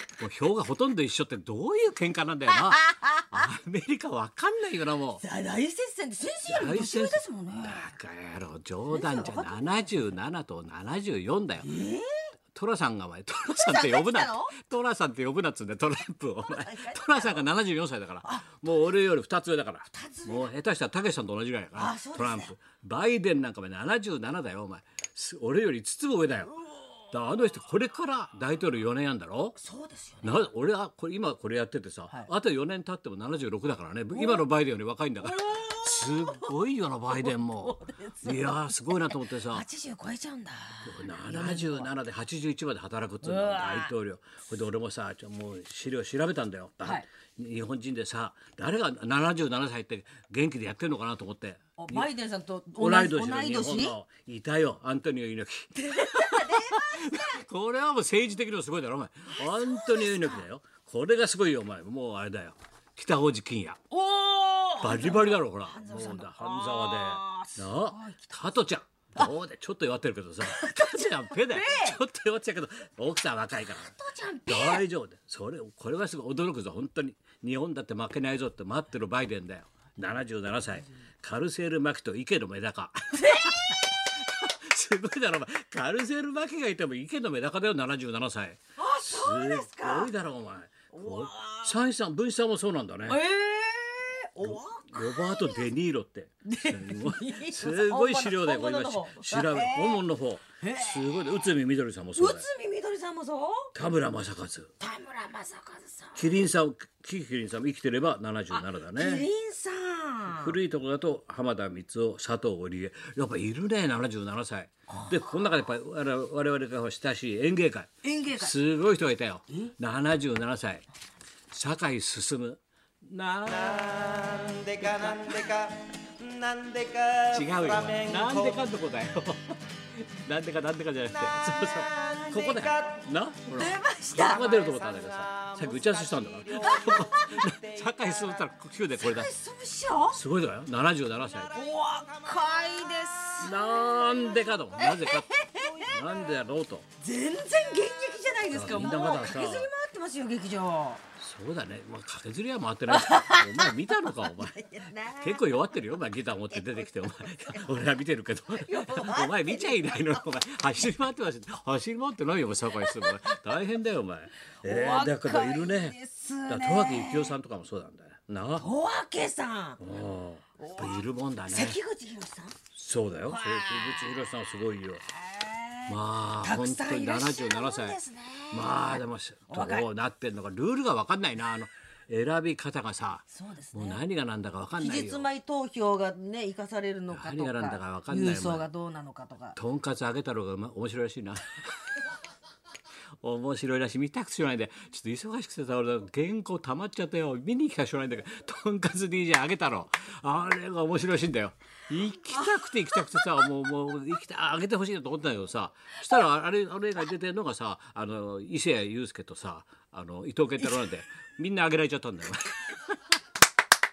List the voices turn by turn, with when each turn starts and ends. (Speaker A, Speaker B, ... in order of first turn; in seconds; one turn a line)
Speaker A: 0.2-5.2
Speaker B: 2.5-3.5
Speaker B: 5.2-7.9
Speaker A: 6.5-11.7
Speaker B: 8.9-9.9
Speaker B: 11.6-12.3
Speaker A: 12.5-26.6
Speaker B: 13.5-14.6
Speaker B: 16.4-17.4
Speaker B: 19.9-20.5
Speaker B: 21.7-22.5
Speaker A: 27.1-29.6
Speaker B: 29.6-30.4
Speaker A: 30.2-39.6
Speaker B: 34.1-34.5
Speaker B: 35.2-36.6
Speaker B: 37.1-41.9
Speaker A: 40.8-52.1
Speaker B: 43.2-43.9
Speaker B: 51.8-54.0
Speaker A: 52.8-63.8
Speaker B: 55.8-57.4
Speaker B: 59.3-60.5
Speaker B: 63.9-68.6
Speaker A: 64.8-73.9
Speaker B: 70.4-72.0
Speaker B: 73.6-74.8
Speaker A: 74.5-93.2
Speaker B: 83.2-83.9
Speaker B: 88.8-90.1
Speaker B: 90.9-91.8
Speaker B: 93.1-95.7
Speaker A: 94.4-102.5
Speaker B: 96.4-100.0
Speaker B: 100.6-101.5
Speaker B: 102.2-103.8
Speaker A: 103.7-104.7
Speaker B: 104.8-106.4
Speaker A: 106.2-109.3
Speaker B: 108.5-110.6
Speaker A: 110.3-120.8
Speaker B: 115.0-115.5
Speaker B: 118.0-118.6
Speaker A: 121.5-125.4
Speaker C: 123.7-128.2
Speaker B: 124.1-125.5
Speaker A: 127.2-139.3
Speaker B: 131.6-132.7
Speaker B: 133.5-134.6
Speaker C: 134.6-136.5
Speaker B: 136.6-137.5
Speaker C: 137.5-137.8
Speaker B: 139.0-140.2
Speaker A: 140.1-141.5
Speaker B: 141.5-146.2
Speaker A: 143.4-146.9
Speaker B: 147.0-151.0
Speaker A: 148.5-149.7
Speaker A: 151.2-168.7
Speaker B: 152.9-155.8
Speaker B: 156.5-157.9
Speaker B: 158.6-160.4
Speaker B: 162.8-163.4
Speaker B: 164.6-167.3
Speaker B: 168.6-169.8
Speaker A: 169.8-171.8
Speaker B: 170.6-172.6
Speaker A: 172.7-175.1
Speaker B: 173.2-174.3
Speaker B: 175.1-179.9
Speaker A: 175.9-178.0
Speaker A: 178.5-185.3
Speaker B: 183.3-184.0
Speaker B: 184.8-189.6
Speaker A: 187.1-188.7
Speaker A: 189.6-192.0
Speaker A: 193.2-213.0